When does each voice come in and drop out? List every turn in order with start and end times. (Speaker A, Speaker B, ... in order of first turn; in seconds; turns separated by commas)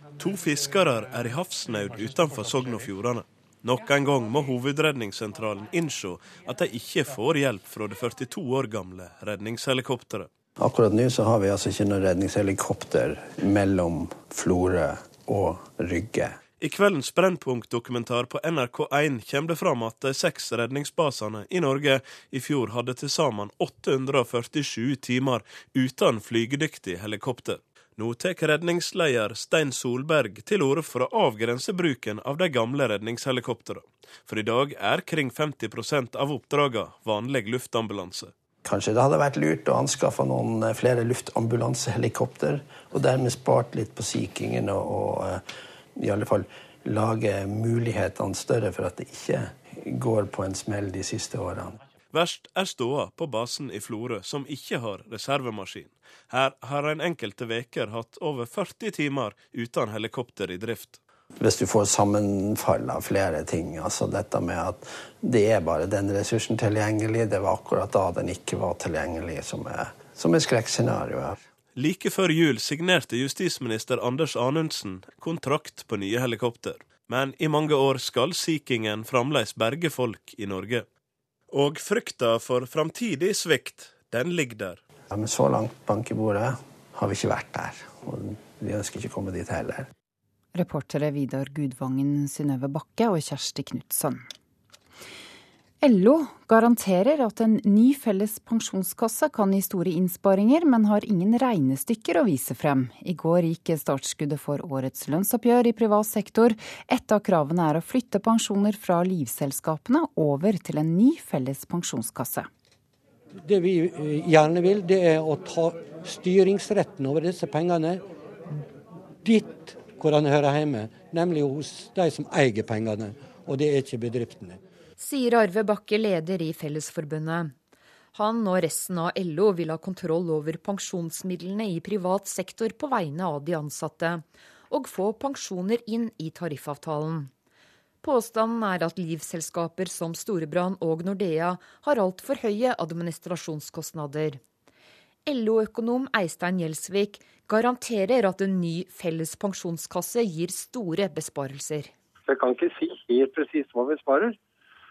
Speaker A: 0.2-10.3, Speaker B: 10.6-16.4, Speaker A: 16.6-38.3, Speaker B: 38.6-45.4, Speaker B: 46.0-51.8, Speaker A: 52.1-61.0, Speaker B: 61.4-71.4, Speaker A: 71.7-80.8, Speaker A: 81.5-84.8, Speaker B: 85.1-89.9, Speaker C: 90.5-94.2, Speaker C: 95.8-112.5, Speaker D: 113.4-118.0, Speaker D: 119.2-124.6, Speaker E: 125.0-127.5, Speaker E: 128.1-137.3, Speaker E: 138.0-144.4, Speaker E: 145.2-151.9, Speaker F: 152.3-154.3